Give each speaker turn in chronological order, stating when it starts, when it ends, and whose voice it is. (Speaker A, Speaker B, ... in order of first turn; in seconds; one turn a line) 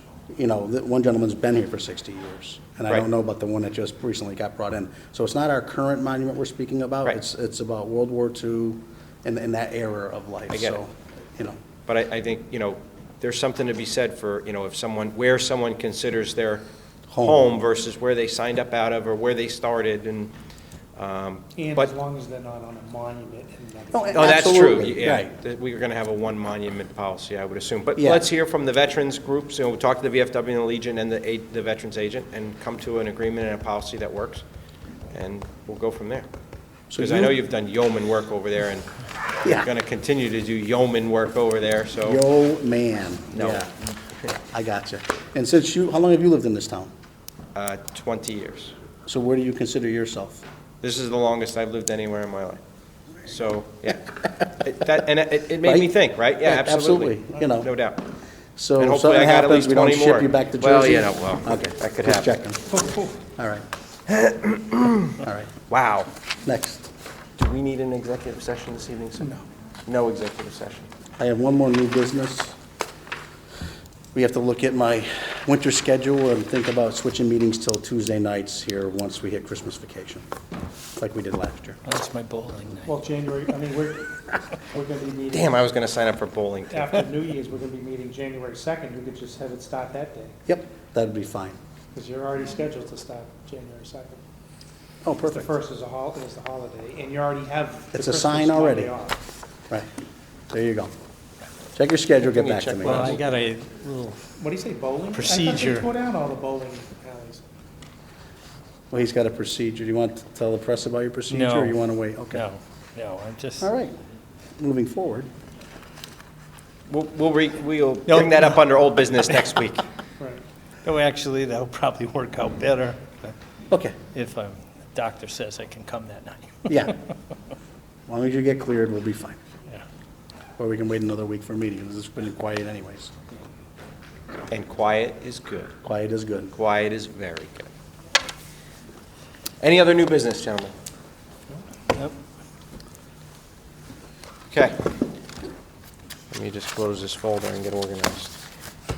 Speaker A: 0.3-11.6
Speaker B: 10.5-10.8
Speaker B: 11.9-16.6
Speaker A: 17.1-17.5
Speaker B: 17.2-20.3
Speaker B: 20.9-21.9
Speaker C: 21.6-24.7
Speaker A: 23.9-25.3
Speaker B: 24.1-34.4
Speaker A: 27.9-28.2
Speaker B: 35.1-36.3
Speaker A: 36.9-37.4
Speaker B: 37.0-38.9
Speaker B: 39.4-42.2
Speaker A: 42.0-46.9
Speaker B: 43.3-43.7
Speaker B: 47.5-48.7
Speaker A: 49.0-50.4
Speaker B: 50.8-52.6
Speaker B: 53.2-58.0
Speaker A: 55.6-57.7
Speaker A: 58.5-62.6
Speaker B: 58.8-62.4
Speaker C: 62.8-63.1
Speaker A: 63.3-63.6
Speaker B: 64.1-65.1
Speaker A: 65.2-65.5
Speaker B: 65.7-66.1
Speaker A: 66.4-66.9
Speaker B: 67.4-69.3
Speaker B: 69.9-70.9
Speaker A: 71.2-72.5
Speaker A: 74.1-80.2
Speaker A: 81.0-81.8
Speaker D: 81.8-82.9
Speaker C: 82.8-85.6
Speaker B: 85.3-87.0
Speaker C: 86.7-90.3
Speaker A: 90.5-91.6
Speaker C: 91.9-94.2
Speaker A: 95.0-95.5
Speaker C: 95.3-99.2
Speaker A: 97.9-98.9
Speaker A: 100.5-100.9
Speaker A: 101.7-103.2
Speaker B: 102.3-103.2
Speaker D: 102.8-104.2
Speaker C: 104.4-107.4
Speaker D: 105.1-105.9
Speaker A: 108.9-112.5
Speaker D: 111.3-111.8
Speaker D: 112.3-113.7
Speaker A: 113.6-114.0
Speaker A: 114.6-115.3
Speaker B: 116.9-119.8
Speaker D: 120.8-123.3
Speaker A: 123.7-124.0
Speaker D: 124.1-126.9
Speaker A: 126.7-127.0
Speaker A: 128.1-129.4
Speaker A: 130.6-133.1
Speaker B: 134.5-135.8
Speaker A: 135.8-136.5
Speaker B: 136.5-137.7
Speaker B: 139.6-140.7
Speaker B: 144.5-144.8
Speaker B: 146.3-148.3